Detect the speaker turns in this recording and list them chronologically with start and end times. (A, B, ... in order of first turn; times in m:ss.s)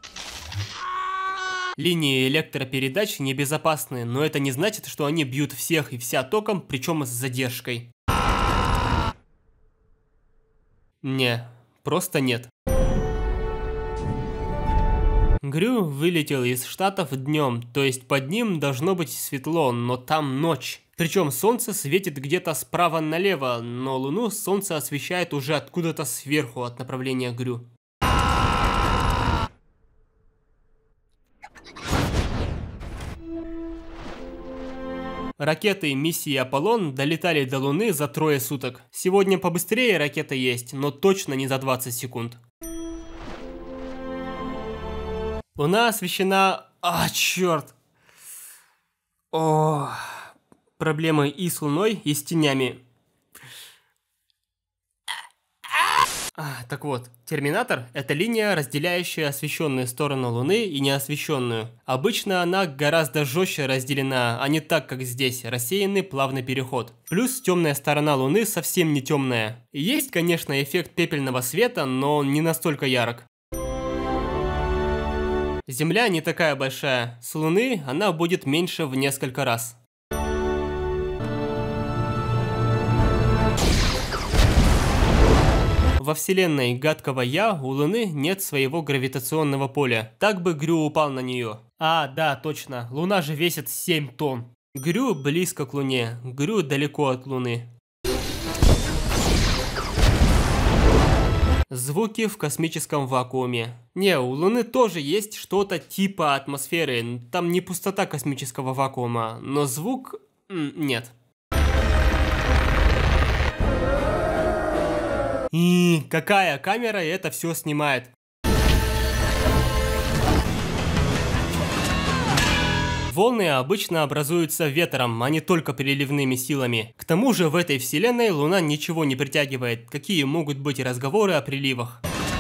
0:01.8-0:07.9 A
0:11.0-0:12.5 A
0:15.4-0:27.7 A
0:35.4-0:42.4 A
0:45.6-0:47.7 A
0:49.3-0:52.8 A
0:56.4-1:13.3 A
1:15.7-1:19.8 A
1:26.0-1:37.7 A
1:41.7-1:51.1 A
1:55.5-1:58.1 A
2:03.1-2:12.0 A